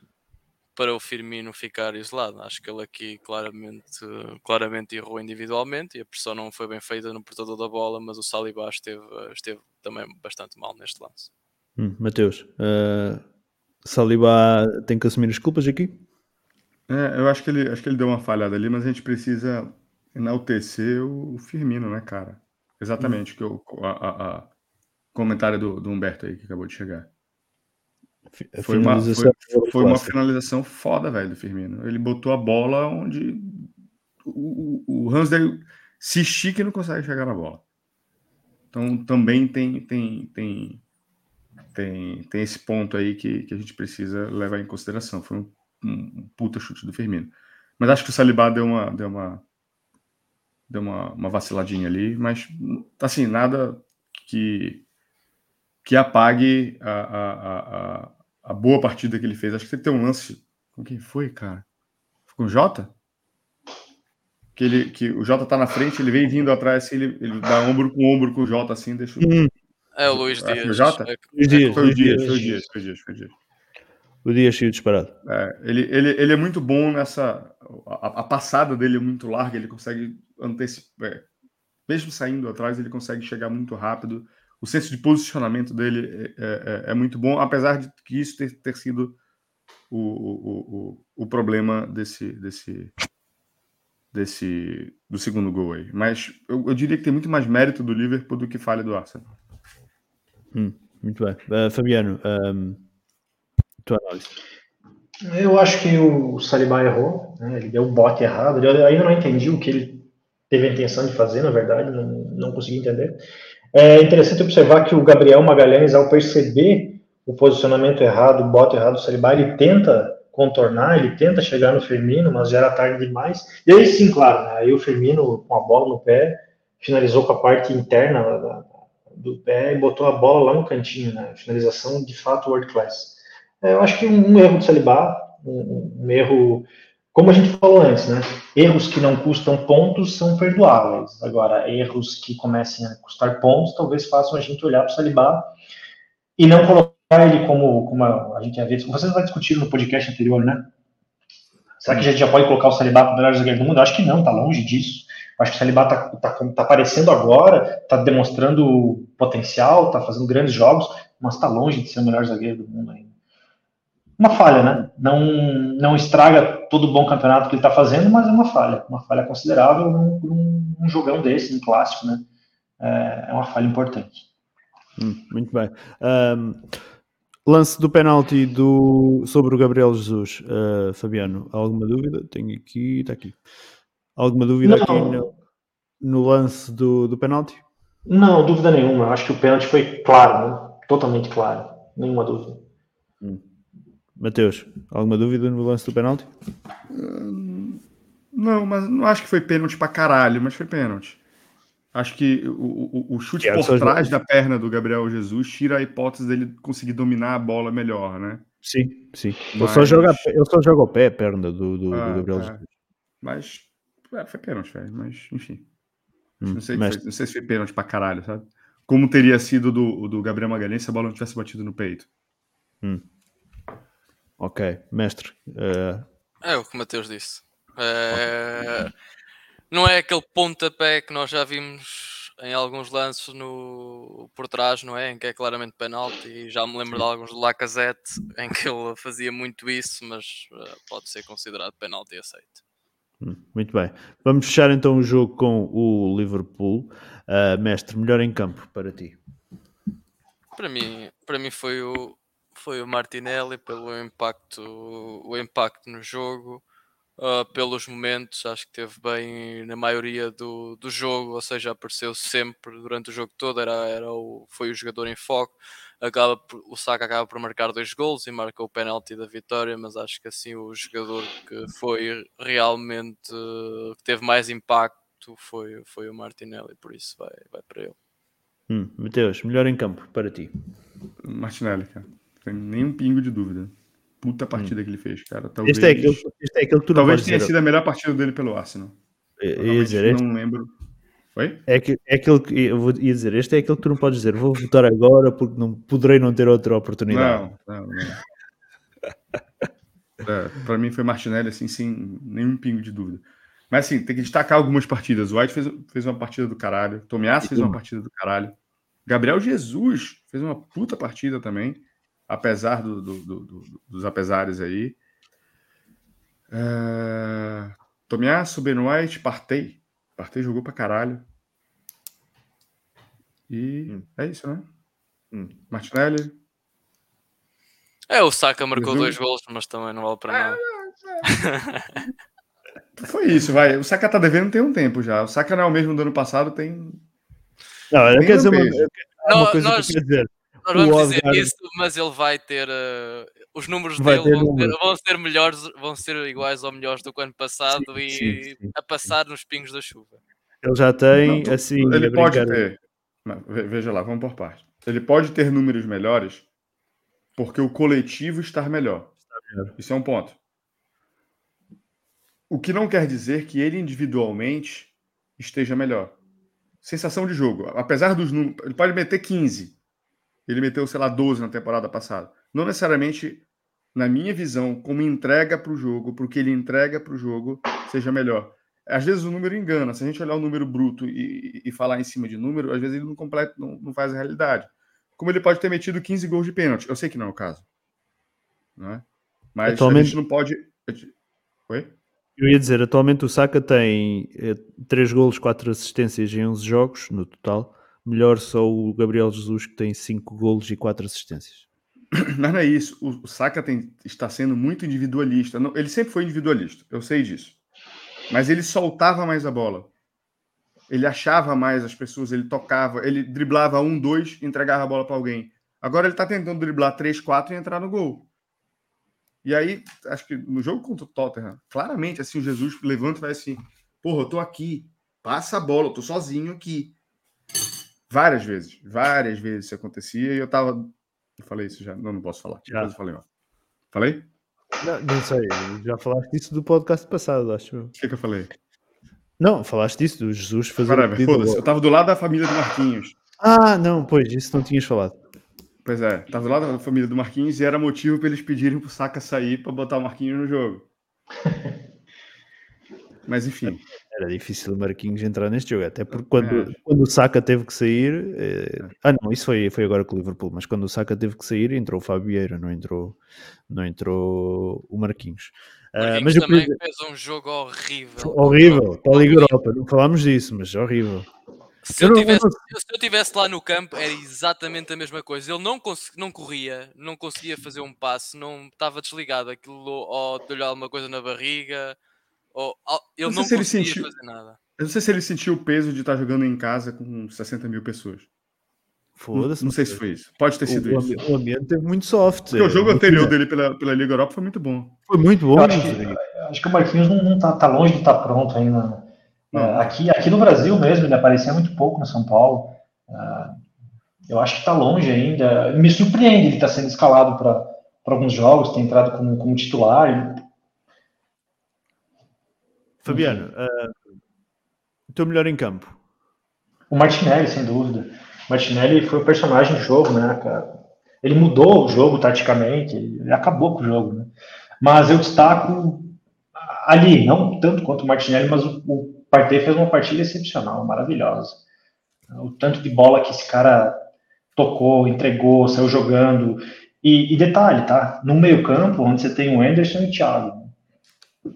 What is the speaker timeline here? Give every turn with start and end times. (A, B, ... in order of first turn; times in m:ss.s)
0:00.7-0:11.3 A
0:11.8-0:13.2 B
0:13.8-0:16.0 B
0:16.9-0:24.5 C
0:25.1-0:27.1 C
0:28.4-0:30.2 B
0:28.6-0:33.7 C
0:34.3-0:37.6 C
0:38.7-0:40.8 C
0:41.7-0:49.4 C
0:50.7-0:54.8 C
0:55.8-1:01.6 C
1:02.3-1:02.9 C
1:04.6-1:09.4 C
1:09.2-1:09.5 B
1:10.0-1:12.0 A
1:10.1-1:11.1 C
1:11.4-1:12.6 B
1:11.7-1:13.3 C
1:14.2-1:15.1 B
1:15.2-1:21.3 C
1:21.9-1:29.2 C
1:29.9-1:32.9 C
1:34.1-1:39.3 C
1:40.5-1:42.8 B
1:43.8-1:44.4 B
1:45.3-2:25.5 D
2:26.4-2:30.7 D
2:31.8-2:43.1 D
2:44.2-2:52.2 D
2:52.8-2:54.2 D
2:55.0-2:56.7 B
2:57.5-3:03.4 B
3:04.2-3:05.3 B
3:04.6-3:05.2 D
3:06.0-3:07.6 B
3:08.1-3:12.6 D
3:14.2-3:16.3 B
3:16.9-3:21.2 C
3:21.9-3:28.4 C
3:23.4-3:24.2 B
3:28.6-3:32.7 B
3:29.5-3:30.3 C
3:31.9-3:32.6 C
3:33.2-3:35.6 C
3:36.4-3:37.0 B
3:36.5-3:42.1 C
3:44.4-3:46.0 B
3:46.4-3:48.9 A
3:49.7-4:02.6 A
4:03.2-4:09.2 B
4:10.6-4:16.6 A
4:17.2-4:38.0 A
4:38.7-4:40.5 B
4:41.2-4:46.2 C
4:45.6-4:47.5 B
4:47.0-4:49.0 C
4:49.4-4:50.2 B
4:49.6-4:50.7 C
4:51.4-4:51.6 C
4:51.7-4:57.4 B
4:57.1-4:58.2 C
5:00.2-5:08.6 C
5:07.4-5:07.8 B
5:09.1-5:15.0 C
5:16.5-5:21.2 C
5:23.5-5:24.6 C
5:25.7-5:26.3 C
5:28.1-5:30.6 A
5:28.7-5:29.1 C
5:30.3-5:31.3 C
5:31.2-5:32.0 A
5:33.0-5:37.0 C
5:37.9-5:41.5 B
5:38.2-5:38.9 C
5:39.3-5:40.0 A
5:40.6-5:50.2 A
5:44.0-5:44.7 B
5:47.7-5:49.1 B
5:50.6-5:52.6 B
5:51.2-5:56.4 C
5:57.4-5:59.1 C
5:59.3-5:59.7 B
5:59.8-6:00.4 C
6:02.5-6:06.2 C
6:06.8-6:09.7 C
6:10.5-6:13.4 C
6:14.0-6:27.6 C
6:28.8-6:29.0 C
6:29.6-6:31.1 C
6:29.6-6:30.2 B
6:31.7-6:31.9 C
6:32.4-6:41.6 B
6:42.1-6:47.6 C
6:48.3-6:49.9 C
6:50.9-6:58.3 C
6:59.4-7:06.9 C
7:08.1-7:13.2 C
7:12.7-7:12.9 B
7:13.9-7:14.3 C
7:14.8-7:17.9 B
7:18.0-7:18.5 C
7:19.4-7:21.6 B
7:20.8-7:23.2 C
7:23.4-7:25.2 B
7:25.8-7:30.8 C
7:33.3-7:33.8 C
7:33.6-7:43.2 B
7:36.2-7:36.7 C
7:43.7-7:46.8 B
7:46.0-7:49.5 A
7:48.2-7:51.3 B
7:51.8-8:02.0 A
7:52.0-7:52.6 B
8:02.5-8:04.6 A
8:03.2-8:04.1 C
8:04.8-8:08.3 C
8:09.2-8:10.0 B
8:09.4-8:11.2 C
8:10.6-8:13.4 B
8:12.5-8:15.0 C
8:15.1-8:16.2 B
8:15.6-8:23.6 D
8:19.5-8:19.9 C
8:24.3-8:30.4 D
8:33.0-8:34.0 B
8:33.1-8:33.4 D
8:35.1-8:36.0 B
8:36.9-8:46.2 D
8:46.7-8:51.6 D
8:52.3-8:54.0 D
8:54.6-9:00.7 D